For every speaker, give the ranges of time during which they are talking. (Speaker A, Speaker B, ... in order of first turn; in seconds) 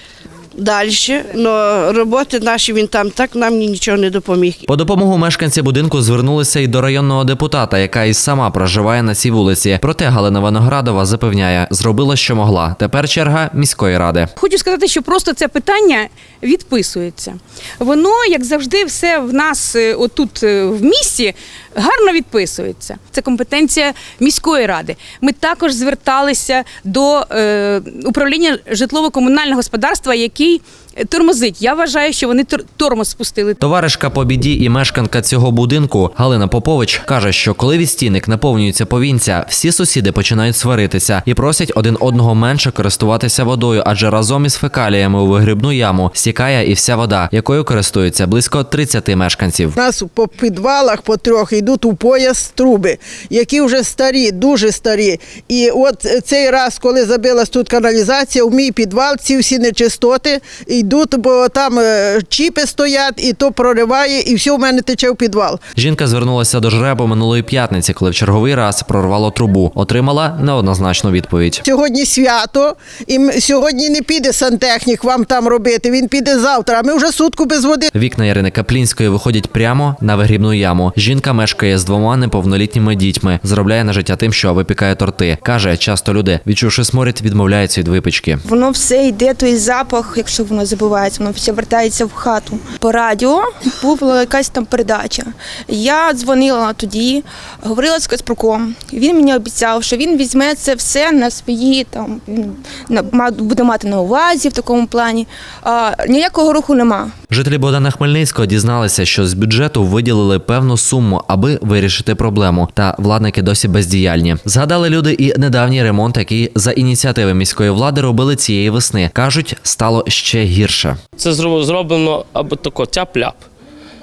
Speaker A: 0.6-4.6
Speaker B: 4.7-14.3, 33.6-49.8, 65.8-71.6, 77.9-88.4, 107.3-121.0
Speaker C: 14.4-33.6
Speaker D: 49.8-65.6, 71.6-77.9
Speaker E: 88.4-107.1
Speaker F: 121.2-123.4